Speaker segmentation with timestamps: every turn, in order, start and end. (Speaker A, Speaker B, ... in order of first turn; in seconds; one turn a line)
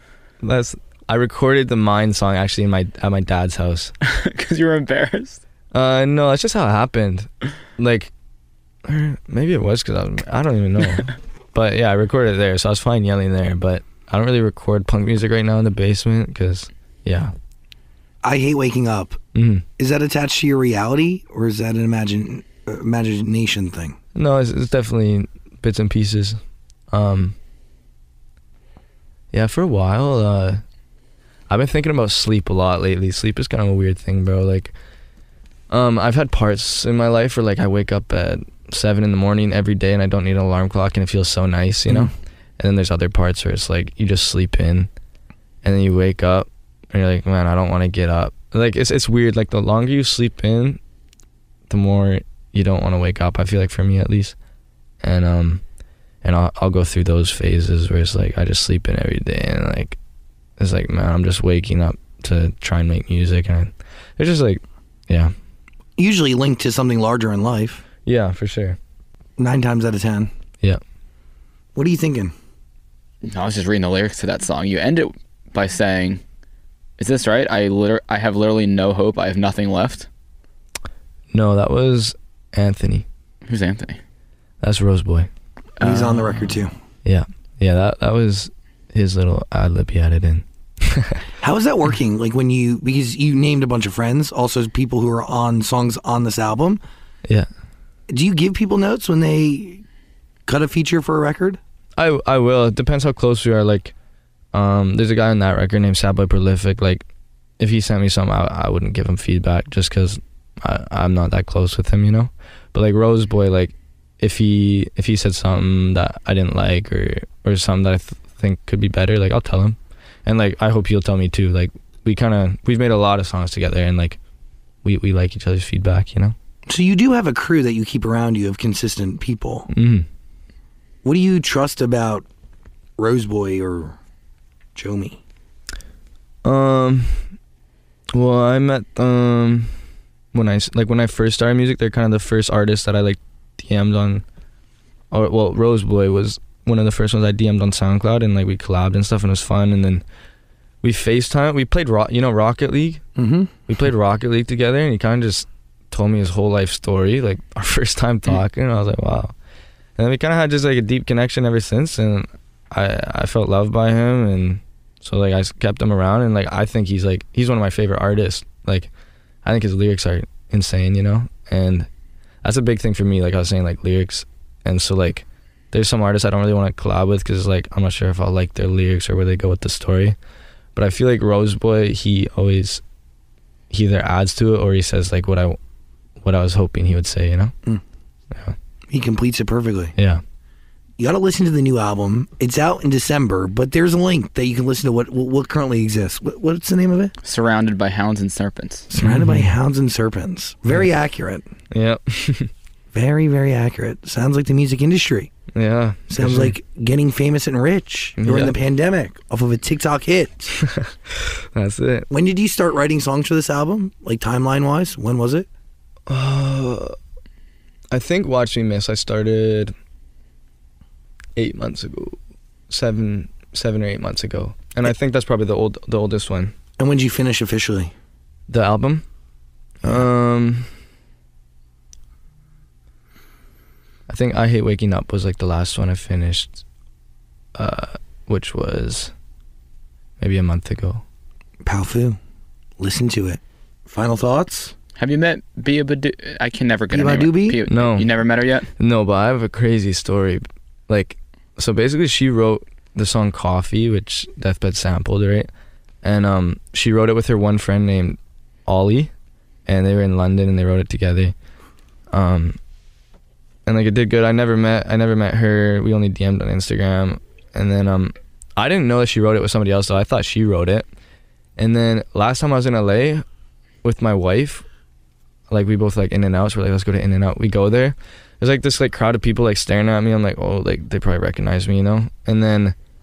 Speaker A: 0.4-3.9
Speaker B: 4.0-5.4
Speaker A: 5.7-8.1
Speaker A: 8.8-17.3
Speaker C: 18.2-19.2
Speaker A: 19.3-19.6
Speaker C: 19.8-24.0
Speaker A: 24.1-26.4
Speaker A: 26.9-27.4
Speaker A: 29.3-30.6
Speaker A: 31.5-34.7
Speaker A: 35.7-44.9
Speaker A: 45.6-50.8
Speaker A: 51.7-54.4
Speaker A: 55.0-55.6
Speaker A: 56.2-60.0
Speaker A: 60.6-65.3
Speaker C: 66.0-67.8
Speaker A: 68.0-68.8
Speaker C: 69.4-70.3
Speaker C: 71.8-72.3
Speaker B: 73.2-76.2
Speaker B: 77.0-80.1
Speaker A: 81.3-83.0
Speaker B: 83.5-84.0
Speaker A: 84.6-85.3
Speaker B: 85.8-86.5
Speaker C: 85.8-86.7
Speaker A: 87.0-91.2
Speaker C: 91.4-96.8
Speaker C: 98.1-99.8
Speaker C: 100.5-101.6
Speaker A: 102.0-103.9
Speaker A: 104.5-107.0
Speaker A: 107.6-124.2
Speaker A: 124.8-126.3
Speaker C: 126.7-129.7
Speaker A: 129.7-130.1
Speaker C: 131.0-132.2
Speaker C: 133.0-134.0
Speaker C: 134.7-135.2
Speaker A: 136.4-137.3
Speaker A: 138.1-139.7
Speaker A: 140.3-144.2
Speaker A: 145.1-150.0
Speaker A: 150.8-153.0
Speaker C: 153.2-153.5
Speaker A: 153.7-159.3
Speaker A: 160.0-168.9
Speaker A: 169.4-171.9
Speaker A: 172.4-180.2
Speaker A: 180.7-182.8
Speaker A: 183.7-185.6
Speaker A: 186.2-187.5
Speaker C: 188.9-189.9
Speaker A: 189.9-190.2
Speaker C: 191.0-197.1
Speaker B: 197.2-198.9
Speaker C: 198.9-201.4
Speaker A: 199.0-199.5
Speaker A: 201.7-202.5
Speaker C: 202.9-205.3
Speaker A: 205.5-206.5
Speaker C: 206.1-210.5
Speaker A: 208.2-208.6
Speaker A: 210.6-212.1
Speaker C: 212.1-215.5
Speaker A: 216.1-216.9
Speaker A: 217.9-219.7
Speaker A: 221.3-226.5
Speaker C: 226.8-227.9
Speaker A: 228.5-229.0
Speaker A: 229.8-230.7
Speaker A: 234.1-236.6
Speaker A: 237.5-239.1
Speaker A: 240.2-241.0
Speaker C: 241.6-242.2
Speaker C: 242.8-244.7
Speaker B: 245.0-248.7
Speaker C: 246.9-247.6
Speaker A: 247.7-248.1
Speaker A: 248.8-255.5
Speaker A: 256.0-259.1
Speaker A: 259.6-261.3
Speaker A: 262.1-262.6
Speaker A: 263.6-270.9
Speaker A: 271.6-273.2
Speaker A: 273.8-274.6
Speaker A: 275.5-282.7